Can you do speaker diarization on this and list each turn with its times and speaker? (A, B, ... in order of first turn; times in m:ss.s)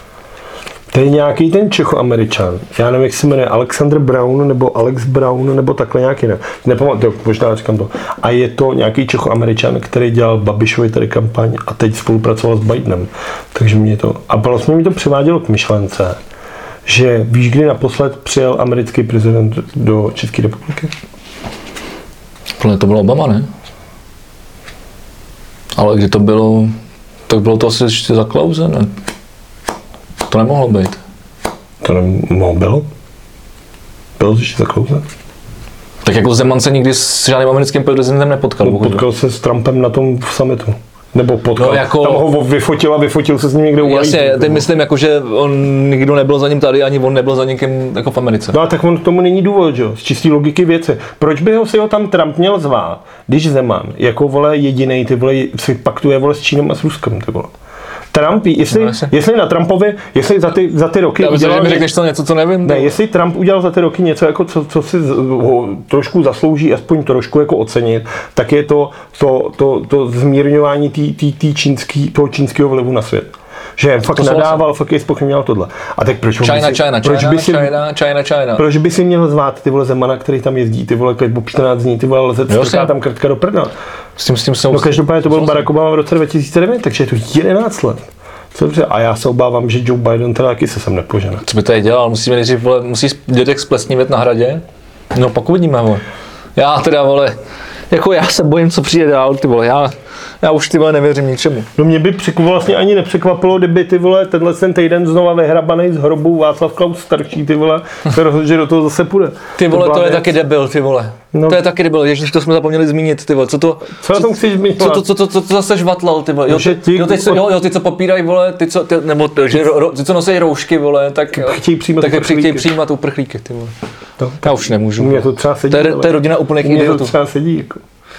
0:00.9-0:16.2 A
0:16.9-0:20.9 A
0:22.6-0:23.5 B
0:25.8-0:26.7 B
0:27.3-0:28.9 B
0:30.3-0:31.0 B
0:31.8-0:32.8 A
0:34.2-0:35.1 A
0:36.0-0:39.0 B
0:38.6-0:44.7 A
0:41.6-0:42.2 B
0:43.8-0:48.6 B
0:48.5-0:57.5 A
0:58.1-1:01.9 A
0:58.7-0:59.1 B
1:01.2-1:03.0 B
1:02.6-1:17.8 A
1:14.1-1:14.6 B
1:16.4-1:18.6 B
1:18.6-1:23.7 A
1:22.5-1:22.9 B
1:24.2-1:25.7 B
1:24.7-1:31.4 A
1:31.4-1:34.6 B
1:35.1-1:36.0 B
1:36.6-1:37.4 B
1:37.9-1:41.7 B
1:41.8-1:50.3 A
1:49.6-2:03.7 B
1:51.3-1:51.6 A
1:54.0-1:55.1 A
1:56.5-1:57.5 A
2:01.3-2:02.7 A
2:04.2-2:07.8 A
2:04.4-2:07.1 B